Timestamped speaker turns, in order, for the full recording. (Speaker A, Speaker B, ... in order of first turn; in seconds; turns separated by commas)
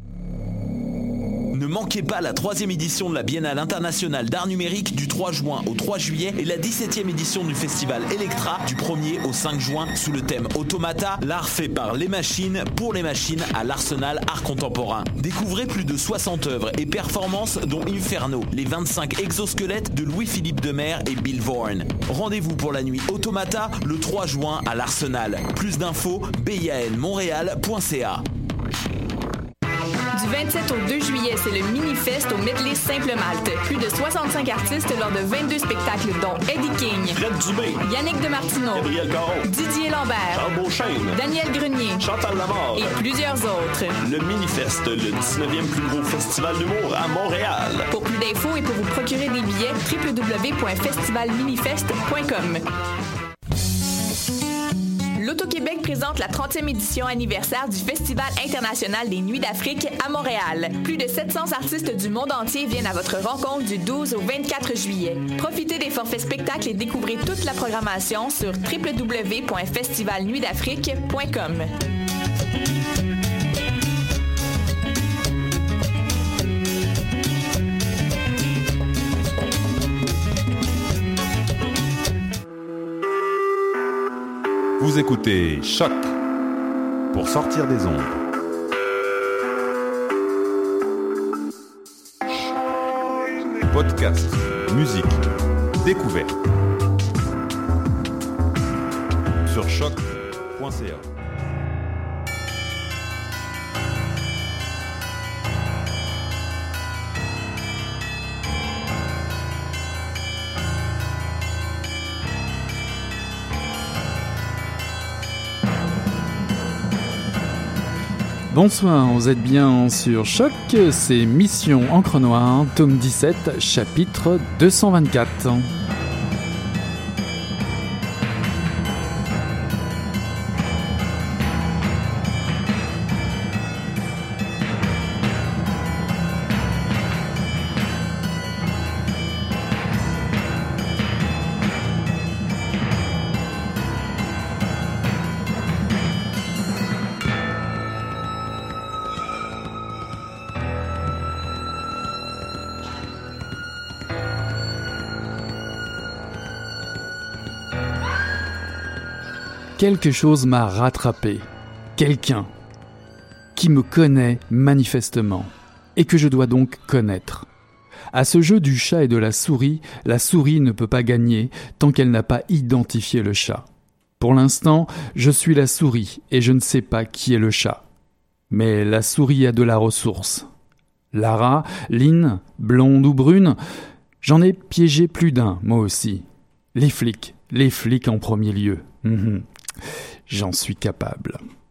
Speaker A: 1.5-28.2, Speaker B: 30.1-37.2, Speaker C: 37.1-37.9, Speaker B: 37.8-38.9, Speaker C: 38.7-39.5, Speaker B: 39.4-40.5, Speaker C: 40.3-41.2, Speaker B: 41.1-42.1, Speaker C: 42.0-43.0, Speaker B: 42.7-43.9, Speaker C: 44.0-47.9, Speaker B: 47.9-52.6, Speaker B: 55.2-71.7, Speaker D: 84.8-86.2, Speaker D: 87.1-88.1, Speaker D: 93.7-95.2, Speaker D: 95.8-96.3, Speaker D: 99.4-101.1, Speaker E: 118.5-125.7, Speaker E: 159.8-162.5, Speaker E: 163.5-167.5, Speaker E: 168.1-173.6, Speaker E: 174.2-177.8, Speaker E: 178.5-180.5, Speaker E: 181.1-183.6, Speaker E: 184.2-189.4, Speaker E: 190.3-191.4